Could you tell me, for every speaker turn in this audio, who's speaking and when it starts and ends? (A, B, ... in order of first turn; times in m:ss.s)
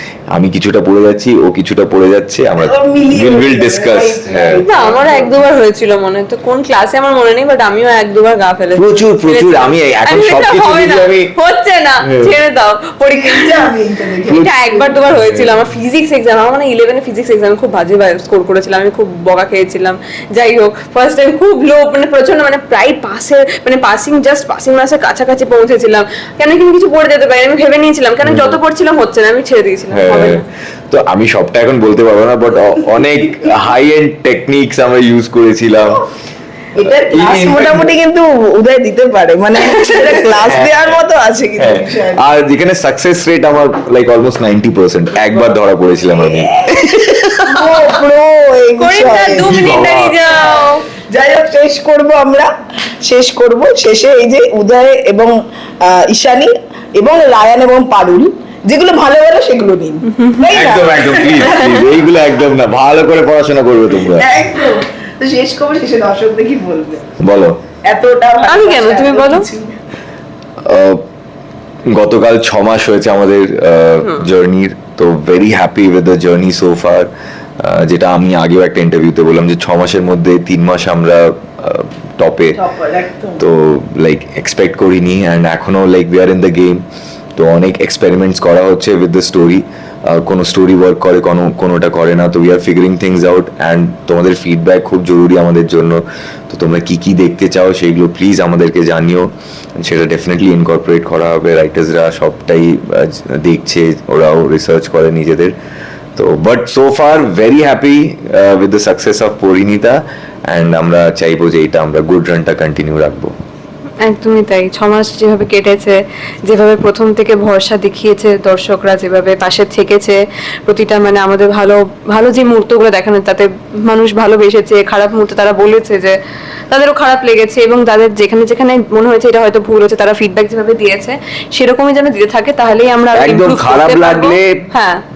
0:00.3-0:04.6 A
0:02.6-0:05.4 B
0:04.6-0:13.7 C
0:08.8-0:11.3 A
0:12.0-0:12.3 A
0:13.1-0:15.1 B
0:14.3-0:30.4 C
0:15.1-0:15.7 A
0:28.2-0:28.6 A
0:29.9-0:36.0 A
0:36.7-0:42.2 B
0:36.8-0:37.9 A
0:40.0-0:41.0 A
0:41.6-0:47.7 A
0:46.1-0:49.6 B
0:48.8-0:50.8 C
0:49.4-0:50.2 A
0:50.6-0:52.5 B
0:53.0-1:02.0 B
1:00.1-1:00.5 C
1:00.5-1:04.3 A
1:01.2-1:01.8 C
1:03.9-1:07.1 B
1:07.2-1:07.6 A
1:07.8-1:09.8 B
1:08.5-1:09.5 C
1:10.6-1:11.0 A
1:11.8-1:17.1 A
1:17.6-1:22.6 A
1:22.5-1:23.4 B
1:23.4-1:26.8 A
1:27.4-1:45.5 A
1:46.2-1:53.3 A
1:54.0-2:06.2 C
2:06.7-2:15.0 C
2:13.1-2:14.6 A